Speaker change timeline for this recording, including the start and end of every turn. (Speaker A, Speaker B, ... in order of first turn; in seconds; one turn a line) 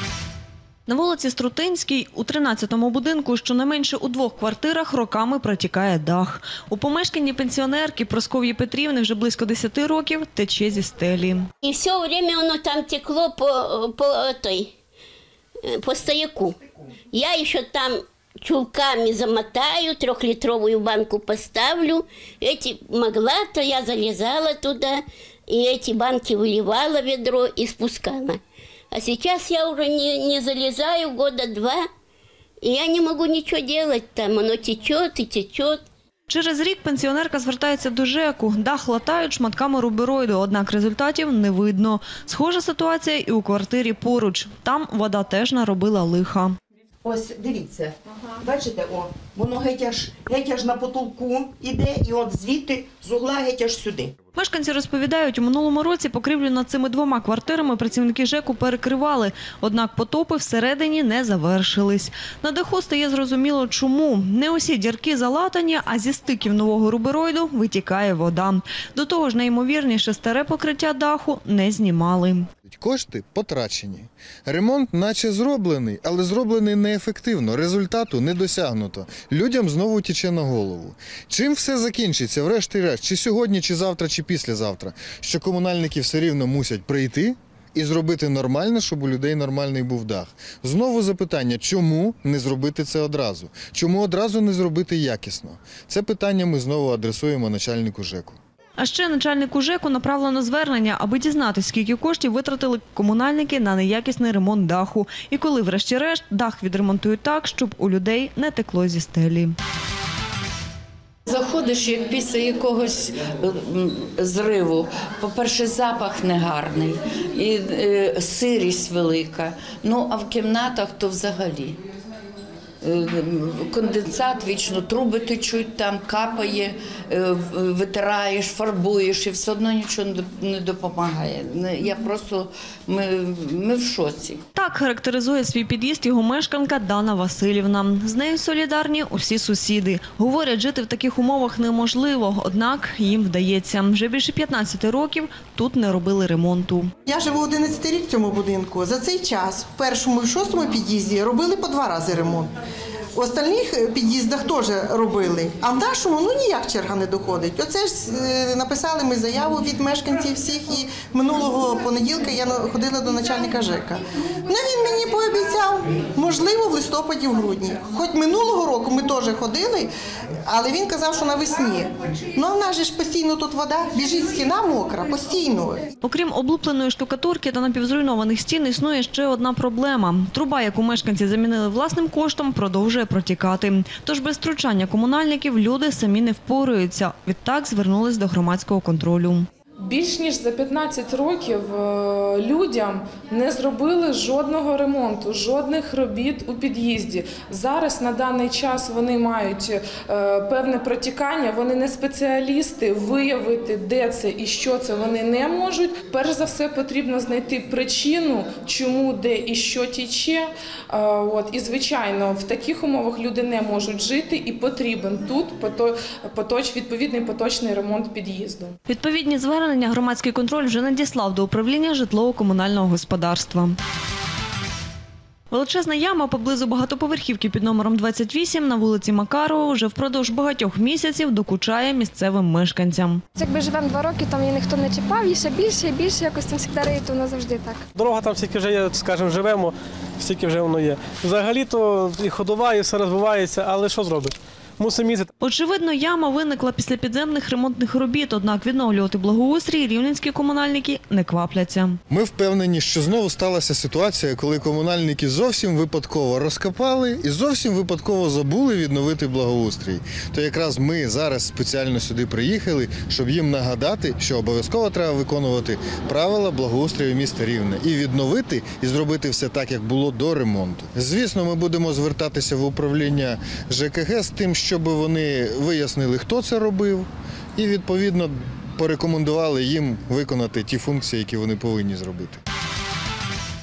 Speaker A: 0.9-11.5
Speaker B: 11.6-14.7
Speaker B: 15.7-16.6
Speaker B: 17.1-28.4
Speaker B: 28.9-31.8
Speaker B: 32.6-35.8
Speaker A: 36.3-46.6
Speaker C: 47.0-54.1
Speaker A: 54.4-72.5
Speaker D: 72.7-98.4
Speaker A: 98.8-109.5
Speaker E: 111.3-121.8
Speaker E: 122.8-134.4
Speaker A: 134.6-146.9
Speaker F: 147.1-152.5
Speaker F: 153.2-169.9
Speaker F: 170.4-175.8
Speaker A: 176.0-189.5
Speaker G: 189.8-218.7
Speaker A: 218.9-223.8
Speaker A: 225.5-233.2
Speaker H: 233.4-237.8
Speaker I: 238.0-245.3
Speaker A: 245.4-252.0
Speaker D: 252.1-282.4